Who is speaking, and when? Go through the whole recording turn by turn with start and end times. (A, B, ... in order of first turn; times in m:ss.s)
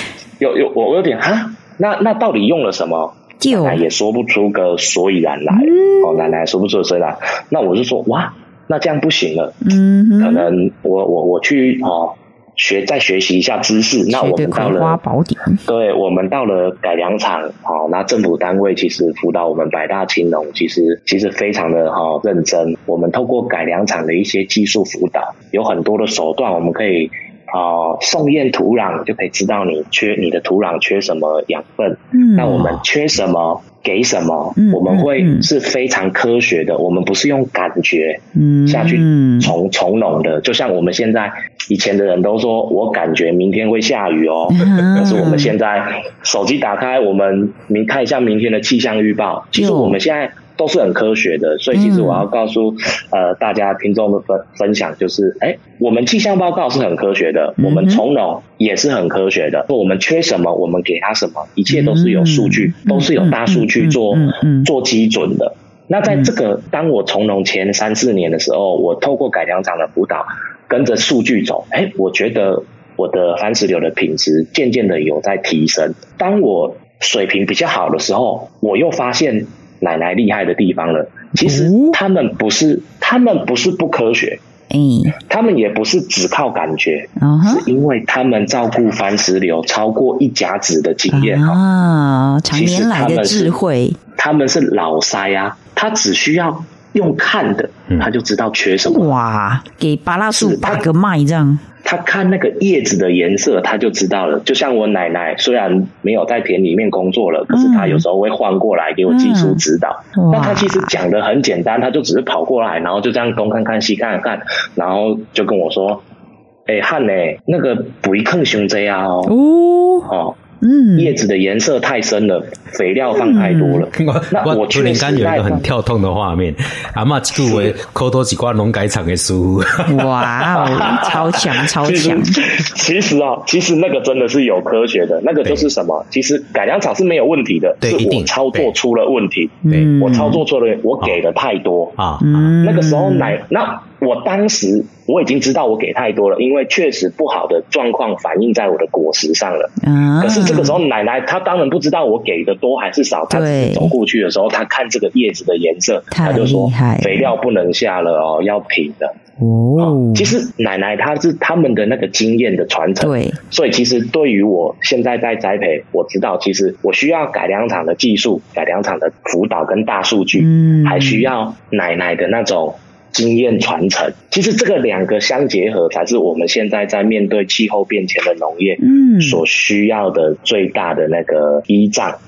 0:00.4-0:15.0 A
0:03.4-0:03.8 B
0:05.5-0:06.4 B
0:09.6-0:10.5 B
0:14.1-0:15.6 B
0:15.7-1:24.4 A
0:32.1-0:32.7 B
0:34.6-0:35.5 B
0:38.4-0:39.5 B
0:44.5-0:45.5 B
0:49.6-0:50.0 B
0:51.7-0:52.3 B
0:57.6-0:58.0 B
1:01.7-1:04.7 B
1:21.4-1:22.0 B
1:24.7-1:25.2 B
1:25.3-1:31.6 A
1:27.2-1:27.7 B
1:31.1-1:34.0 B
1:32.5-1:33.6 A
1:34.2-1:39.1 A
1:38.9-1:41.6 B
1:40.3-1:40.8 A
1:41.8-1:56.0 A
1:47.5-1:48.0 B
1:49.1-1:49.6 B
1:50.2-1:50.9 B
1:56.7-1:59.3 A
1:59.3-2:00.1 B
2:00.1-2:00.4 A
2:00.6-2:01.2 B
2:01.0-2:05.7 A
2:03.1-2:03.8 B
2:04.0-2:10.5 C
2:07.4-2:07.8 A
2:09.9-2:12.4 B
2:10.6-2:22.0 A
2:15.4-2:15.7 C
2:17.8-2:18.7 C
2:19.6-2:20.4 B
2:22.0-2:22.5 C
2:22.2-2:23.4 B
2:22.6-2:39.1 A
2:29.8-2:30.8 B
2:33.3-2:33.9 B
2:36.1-2:37.3 B
2:39.4-2:40.3 B
2:39.8-3:02.2 A
2:43.0-2:43.4 B
2:50.4-2:51.3 B
2:58.8-2:59.4 B